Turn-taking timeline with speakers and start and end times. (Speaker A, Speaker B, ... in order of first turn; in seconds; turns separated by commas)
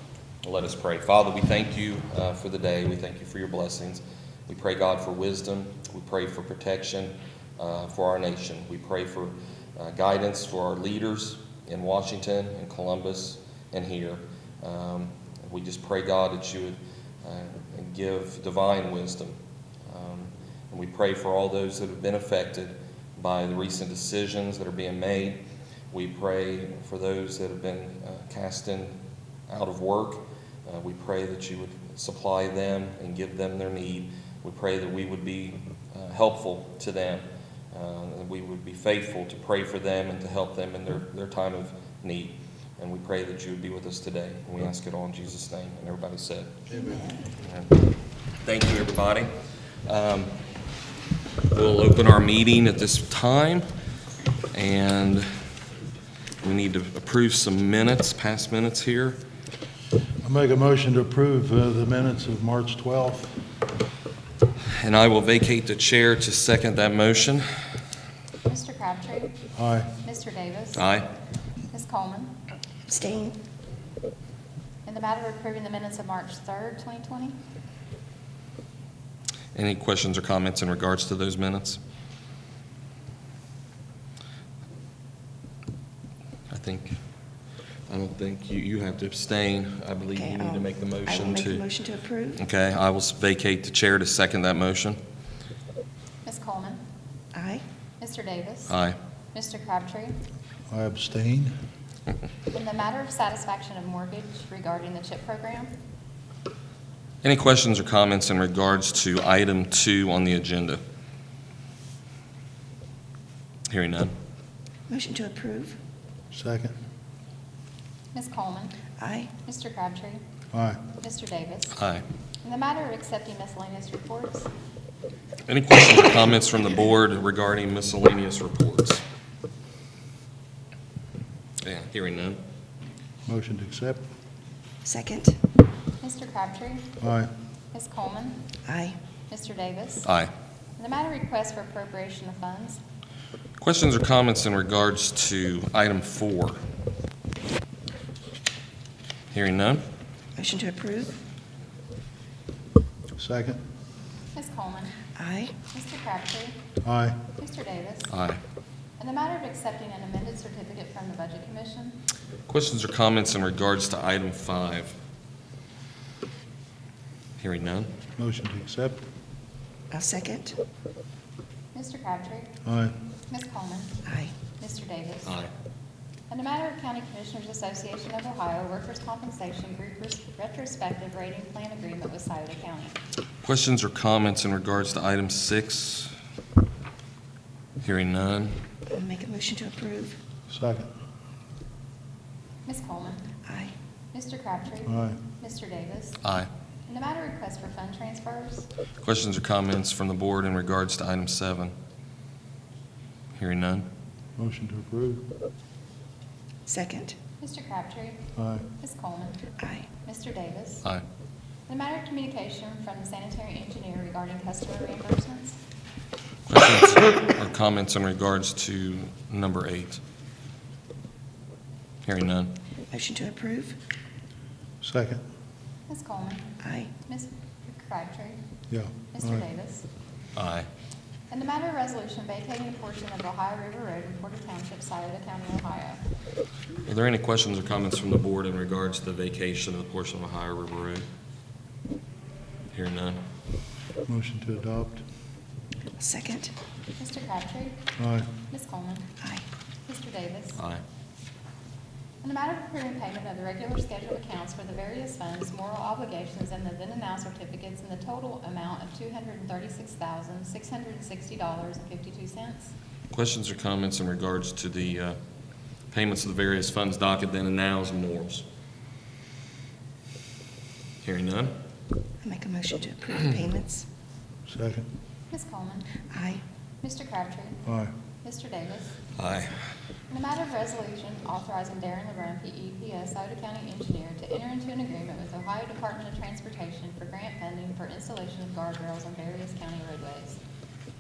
Speaker A: 0.4-28.9, Speaker A: 29.5-46.6, Speaker B: 46.8-47.1, Speaker A: 47.4-47.8, Speaker A: 48.4-49.3, Speaker A: 49.9-50.3, Speaker A: 51.5-53.7, Speaker A: 54.5-55.2, Speaker A: 56.4-59.2, Speaker C: 60.2-63.4, Speaker A: 64.7-67.5, Speaker D: 68.4-69.4, Speaker C: 69.5-69.9, Speaker D: 70.0-70.8, Speaker A: 70.8-71.0, Speaker D: 71.7-72.3, Speaker B: 72.9-73.3, Speaker D: 74.8-77.3, Speaker A: 79.5-81.8, Speaker A: 86.5-86.9, Speaker A: 87.9-91.7, Speaker B: 90.1-92.4, Speaker A: 92.3-95.0, Speaker D: 96.2-96.8, Speaker B: 97.3-97.6, Speaker D: 98.0-98.7, Speaker A: 98.7-99.0, Speaker D: 99.3-100.2, Speaker C: 100.7-101.5, Speaker D: 102.5-105.7, Speaker A: 107.2-110.8, Speaker A: 113.7-114.1, Speaker B: 114.9-115.8, Speaker C: 116.3-116.7, Speaker D: 118.1-118.8, Speaker B: 119.0-119.3, Speaker D: 119.4-120.2, Speaker C: 120.5-120.8, Speaker D: 121.0-121.7, Speaker A: 121.8-122.0, Speaker D: 122.4-124.5, Speaker A: 125.5-129.0, Speaker A: 131.6-132.4, Speaker C: 133.2-134.0, Speaker B: 134.8-135.4, Speaker D: 136.0-136.9, Speaker C: 137.0-137.3, Speaker D: 137.7-138.4, Speaker B: 138.7-139.0, Speaker D: 139.3-140.1, Speaker A: 140.0-140.3, Speaker D: 140.8-142.8, Speaker A: 143.6-146.6, Speaker A: 149.3-149.8, Speaker B: 150.3-151.2, Speaker C: 153.2-153.6, Speaker D: 154.3-155.0, Speaker B: 155.1-155.5, Speaker D: 155.7-156.6, Speaker C: 156.8-157.2, Speaker D: 157.4-158.1, Speaker A: 158.1-158.4, Speaker D: 159.0-162.0, Speaker A: 162.5-164.9, Speaker A: 167.4-167.9, Speaker C: 168.2-169.0, Speaker B: 169.9-170.6, Speaker D: 171.7-172.5, Speaker C: 172.6-172.9, Speaker D: 173.3-174.0, Speaker B: 174.0-174.3, Speaker D: 174.6-175.3, Speaker A: 175.2-175.5, Speaker D: 176.3-183.0, Speaker A: 183.4-186.1, Speaker A: 187.8-188.6, Speaker B: 188.9-190.2, Speaker C: 190.5-190.9, Speaker D: 192.7-193.3, Speaker B: 193.4-193.7, Speaker D: 194.1-196.2, Speaker C: 194.8-195.2, Speaker A: 196.2-196.5, Speaker D: 196.9-198.7, Speaker A: 199.0-201.7, Speaker A: 203.3-203.9, Speaker C: 204.4-205.3, Speaker B: 206.7-207.1, Speaker D: 207.4-208.2, Speaker C: 208.3-208.7, Speaker D: 208.8-209.4, Speaker B: 209.6-209.8, Speaker D: 210.0-210.8, Speaker D: 211.7-215.6, Speaker A: 216.5-220.0, Speaker A: 222.1-222.5, Speaker B: 222.9-223.8, Speaker C: 224.8-225.2, Speaker D: 225.9-226.5, Speaker B: 226.6-226.9, Speaker D: 227.0-228.4, Speaker C: 228.7-229.4, Speaker D: 229.1-229.8, Speaker A: 230.3-230.7, Speaker D: 231.3-236.0, Speaker A: 236.8-241.1, Speaker A: 242.7-243.2, Speaker C: 244.1-245.0, Speaker B: 246.0-246.5, Speaker D: 247.0-247.8, Speaker C: 248.0-248.3, Speaker D: 248.5-249.1, Speaker B: 249.2-249.4, Speaker D: 249.8-250.6, Speaker A: 250.6-250.8, Speaker D: 252.2-262.7, Speaker A: 263.1-265.2, Speaker A: 265.9-268.4, Speaker A: 271.0-271.5, Speaker B: 272.2-273.8, Speaker C: 274.5-274.9, Speaker D: 275.3-275.9, Speaker B: 276.1-276.4, Speaker D: 276.8-277.6, Speaker C: 277.6-277.9, Speaker D: 278.2-279.0, Speaker A: 279.1-279.5, Speaker D: 280.1-290.4